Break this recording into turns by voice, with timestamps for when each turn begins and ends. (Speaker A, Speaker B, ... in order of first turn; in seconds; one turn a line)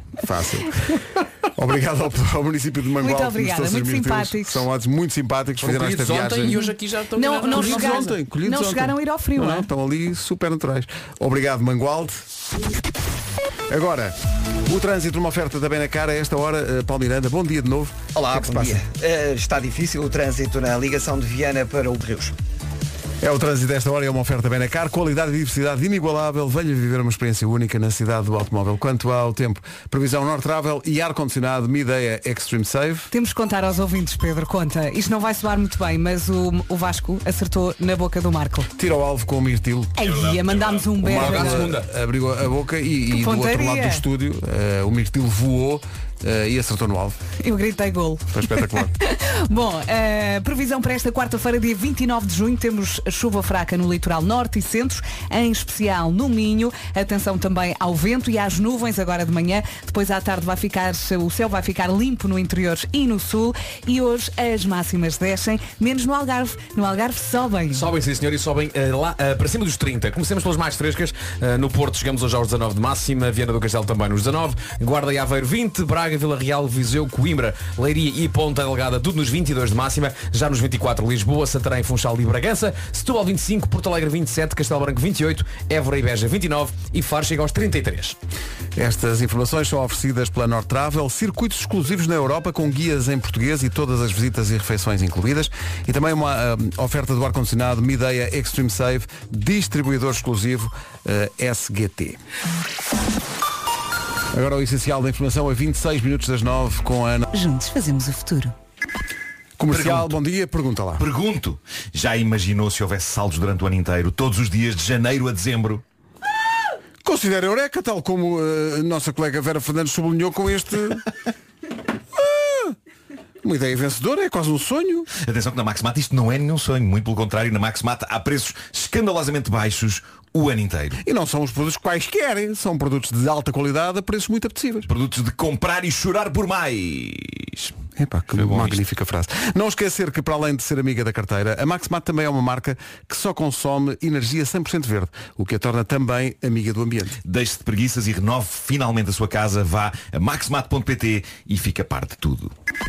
Speaker A: 0.2-6.7
Speaker B: 3.0-4.6
Speaker C: 5.6-8.1
Speaker B: 6.5-9.7
Speaker A: 7.5-12.2
Speaker A: 13.7-18.8
Speaker D: 18.1-22.3
Speaker A: 23.2-33.1
Speaker B: 33.1-38.7
Speaker A: 38.8-40.0
Speaker B: 40.0-41.7
Speaker E: 40.0-40.9
Speaker A: 41.0-47.2
Speaker C: 41.0-41.9
Speaker B: 43.1-44.0
Speaker B: 47.4-67.8
Speaker A: 48.3-48.9
Speaker C: 67.7-88.2
Speaker A: 88.8-102.2
Speaker A: 104.3-107.3
Speaker B: 107.3-108.5
Speaker A: 109.6-111.0
Speaker E: 109.7-110.1
Speaker E: 111.0-115.8
Speaker A: 117.0-121.1
Speaker A: 122.2-122.8
Speaker A: 123.4-125.1
Speaker E: 125.2-131.0
Speaker A: 131.0-134.9
Speaker E: 134.9-137.7
Speaker A: 138.0-147.2
Speaker E: 138.4-138.7
Speaker E: 147.2-152.5